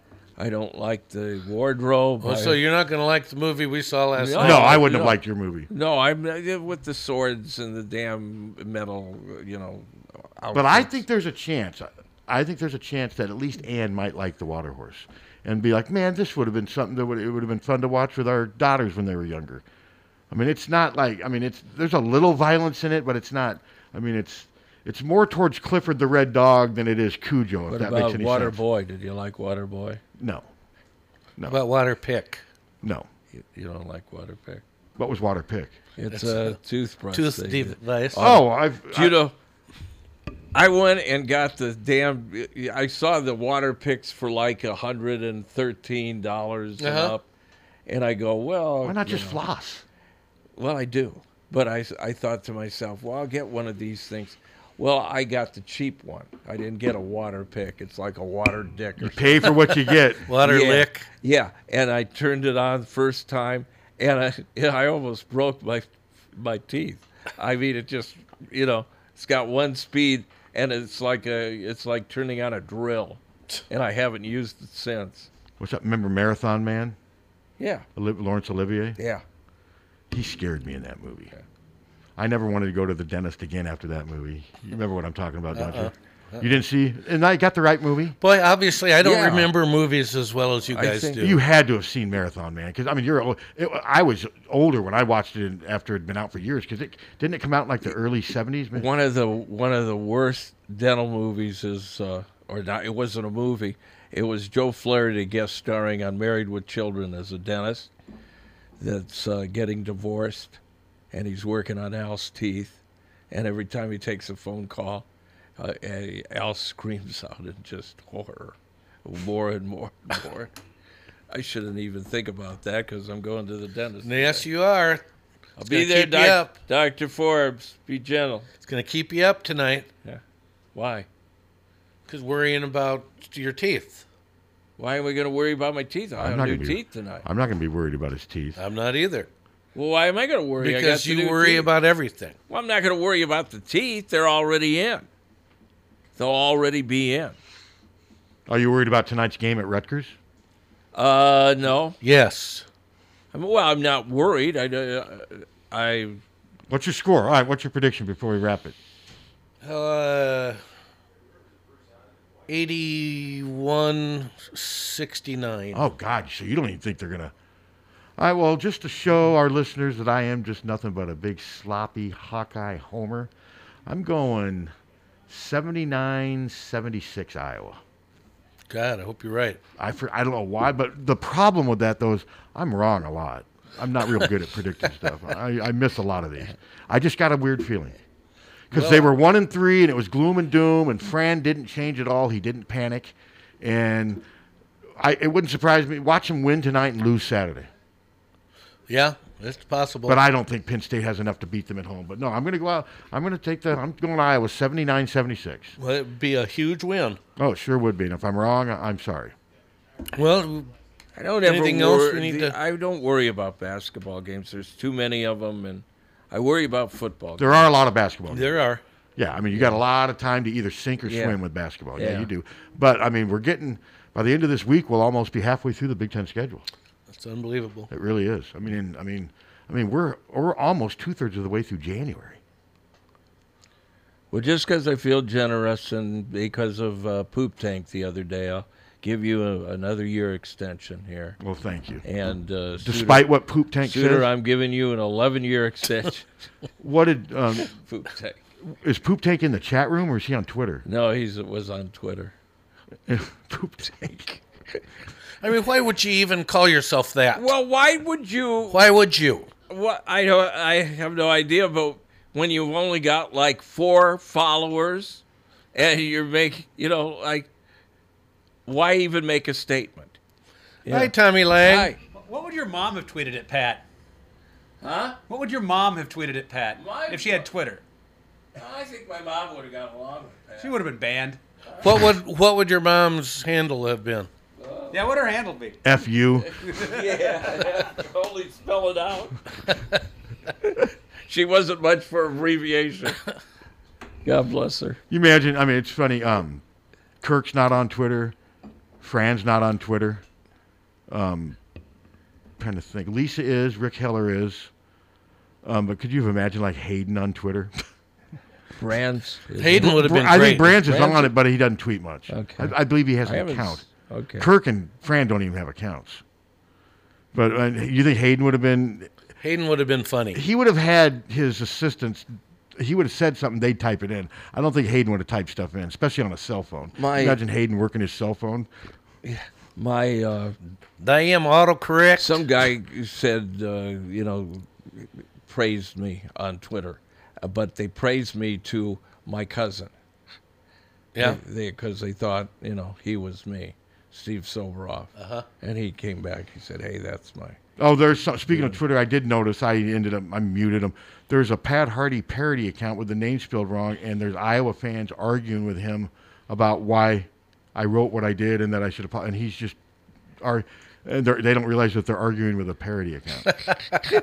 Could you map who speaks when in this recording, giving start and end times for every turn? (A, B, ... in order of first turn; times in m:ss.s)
0:00.4-0:02.6 A
0:02.2-0:05.0 B
0:04.2-0:11.0 A
0:04.4-0:05.7 C
0:10.5-0:19.6 C
0:20.3-0:28.6 C
0:27.7-0:30.0 A
0:30.2-0:30.5 C
0:31.5-0:32.4 B
0:32.8-0:33.1 C
0:33.3-0:34.6 A
0:35.0-0:35.8 C
0:36.0-0:39.3 A
0:36.1-0:36.6 B
0:37.1-0:38.3 B
0:38.2-0:39.2 C
0:40.5-0:47.2 A
0:46.8-0:47.1 B
0:47.8-0:49.4 A
0:48.8-0:49.8 C
0:50.6-0:59.6 A
0:59.0-1:00.3 C
1:00.2-1:01.1 B
1:00.4-1:15.3 A
1:15.6-1:17.0 C
1:17.6-1:17.8 A
1:18.0-1:19.0 C
1:19.0-1:19.2 A
1:20.1-1:21.3 C
1:22.2-1:28.2 C
1:25.5-1:26.5 B
1:28.2-1:31.4 B
1:29.0-1:29.5 A
1:30.7-1:31.2 A
1:31.2-1:38.9 C
1:38.7-1:47.9 A
1:48.8-1:50.6 A
1:51.1-1:52.8 A
1:53.3-1:55.0 A
1:55.6-2:00.5 A
2:01.3-2:04.5 A
2:04.0-2:05.0 B
2:05.6-2:08.5 A
2:05.7-2:06.6 B
2:08.6-2:09.9 B
2:10.7-2:11.1 A
2:12.1-2:14.0 B
2:14.8-2:17.2 A
2:16.2-2:18.6 C
2:18.6-2:19.3 B
2:19.7-2:21.7 A
2:20.6-2:22.4 B
2:22.5-2:25.1 A
2:26.2-2:27.4 A
2:28.5-2:30.2 C
2:30.9-2:32.0 A
2:32.0-2:32.6 B
2:33.3-2:36.2 A
2:36.7-2:38.7 C
2:39.6-2:40.6 B
2:42.5-2:45.8 B
2:45.7-2:47.3 C
2:48.2-2:53.3 C
2:53.8-2:54.7 C
2:55.3-2:57.8 C
2:58.7-2:59.6 B
2:59.8-3:08.0 C
3:08.7-3:14.2 C
3:08.7-3:09.1 B
3:15.0-3:17.7 C
3:18.9-3:20.2 B
3:20.0-3:25.8 C
3:25.8-3:27.2 B
3:27.4-3:29.3 C
3:30.1-3:30.7 B
3:31.1-3:37.7 A
3:31.4-3:32.6 B
3:37.4-3:38.5 C
3:38.3-3:38.8 B
3:39.2-3:46.7 C
3:39.5-3:39.8 A
3:41.1-3:41.4 A
3:42.0-3:42.3 A
3:47.1-3:47.9 B
3:47.9-3:52.4 C
3:54.3-4:01.4 A
4:01.4-4:02.0 C
4:02.0-4:06.3 A
4:02.8-4:04.3 C
4:06.8-4:07.7 C
4:07.7-4:08.4 A
4:08.6-4:10.8 C
4:10.8-4:12.3 A
4:13.1-4:14.4 C
4:15.4-4:17.5 B
4:17.3-4:18.8 A
4:18.7-4:19.5 B
4:19.7-4:25.2 A
4:25.7-4:27.5 A
4:28.6-4:30.2 A
4:30.8-4:31.9 B
4:30.8-4:32.0 A
4:32.0-4:33.8 D
4:34.8-4:35.2 A
4:35.3-4:37.8 D
4:36.7-4:37.5 A
4:38.5-4:40.9 A
4:40.6-4:41.4 D
4:41.7-4:42.0 A
4:41.8-4:44.3 B
4:44.6-4:45.1 A
4:44.9-4:45.8 D
4:45.8-4:46.6 C
4:46.4-4:49.4 A
4:50.6-4:53.2 A
4:54.2-4:55.0 A
4:55.1-4:56.6 C
4:57.2-4:58.3 C
4:59.0-5:00.2 C
5:01.1-5:01.6 C
5:02.6-5:04.7 C
5:05.6-5:07.7 C
5:08.8-5:10.0 A
5:09.6-5:11.2 B
5:09.8-5:13.9 C
5:10.8-5:11.1 A
5:12.3-5:14.5 A
5:14.4-5:16.2 C
5:17.3-5:19.1 C
5:19.4-5:20.4 B
5:20.3-5:28.7 C
5:27.0-5:27.4 A
5:29.2-5:30.6 A
5:31.0-5:32.4 B
5:32.2-5:39.9 A
5:41.1-5:41.4 B
5:41.2-5:47.6 A
5:45.2-5:45.4 B
5:47.8-5:59.8 C
5:48.5-5:48.8 A
6:00.4-6:03.5 C